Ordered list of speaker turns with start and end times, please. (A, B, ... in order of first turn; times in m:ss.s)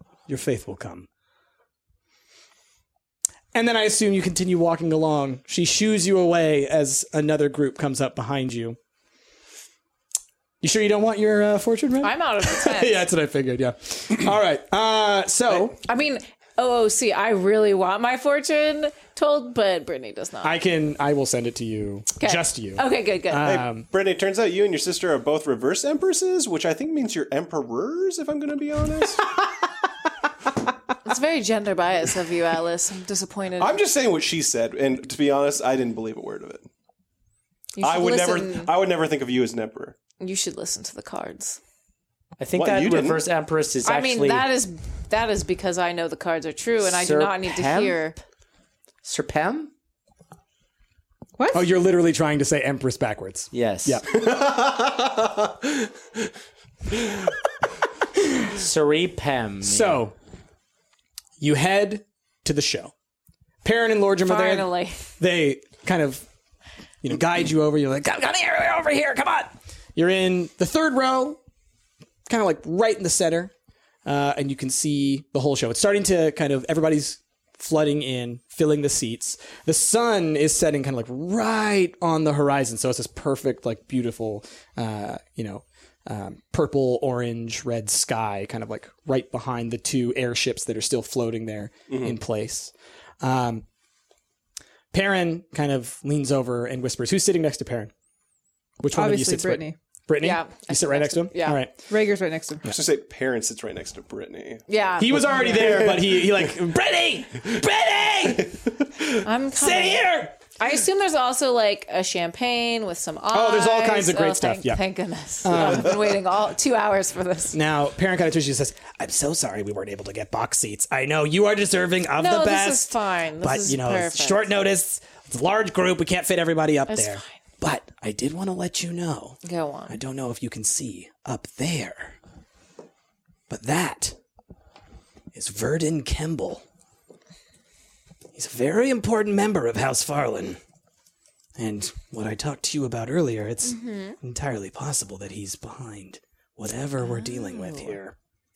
0:00.3-0:01.1 A
0:03.5-0:08.8 A
0:10.6-0:15.8 A
0:12.0-0:13.0 B
0:15.6-0:20.5 B
0:20.4-0:23.9 A
0:22.2-0:23.5 B
0:23.4-0:29.3 C
0:31.0-0:33.8 B
0:33.6-0:36.6 C
0:37.8-0:38.7 B
0:37.8-0:40.0 C
0:40.2-0:41.6 B
0:42.4-0:44.5 D
0:42.5-0:43.2 C
0:43.8-0:48.2 B
0:46.8-0:48.0 D
0:49.0-0:49.7 D
0:51.4-0:51.7 E
0:51.5-0:54.1 A
0:53.5-0:54.0 D
0:54.1-0:55.9 C
0:58.5-1:00.0 D
0:59.6-1:00.1 A
1:01.4-1:02.9 A
1:03.6-1:06.2 A
1:04.2-1:05.0 B
1:07.0-1:11.4 A
1:12.3-1:13.5 A
1:14.0-1:33.6 A
1:31.9-1:32.2 C
1:34.9-1:37.9 A
1:38.8-1:41.7 A
1:38.9-1:39.8 E
1:40.2-1:41.6 B
1:41.9-1:42.6 E
1:42.6-1:46.5 C
1:44.7-1:45.7 B
1:45.0-1:48.5 A
1:49.2-1:50.0 B
1:49.6-1:50.3 A
1:50.6-1:57.6 B
1:53.3-1:54.8 A
1:55.4-1:55.9 A
1:57.5-2:12.2 A
2:02.2-2:04.5 B
2:06.9-2:07.2 B
2:09.4-2:10.0 B
2:13.5-2:14.2 A
2:15.3-2:16.6 A
2:18.3-2:20.6 A
2:21.6-2:28.1 A
2:23.6-2:24.2 B
2:27.0-2:27.9 B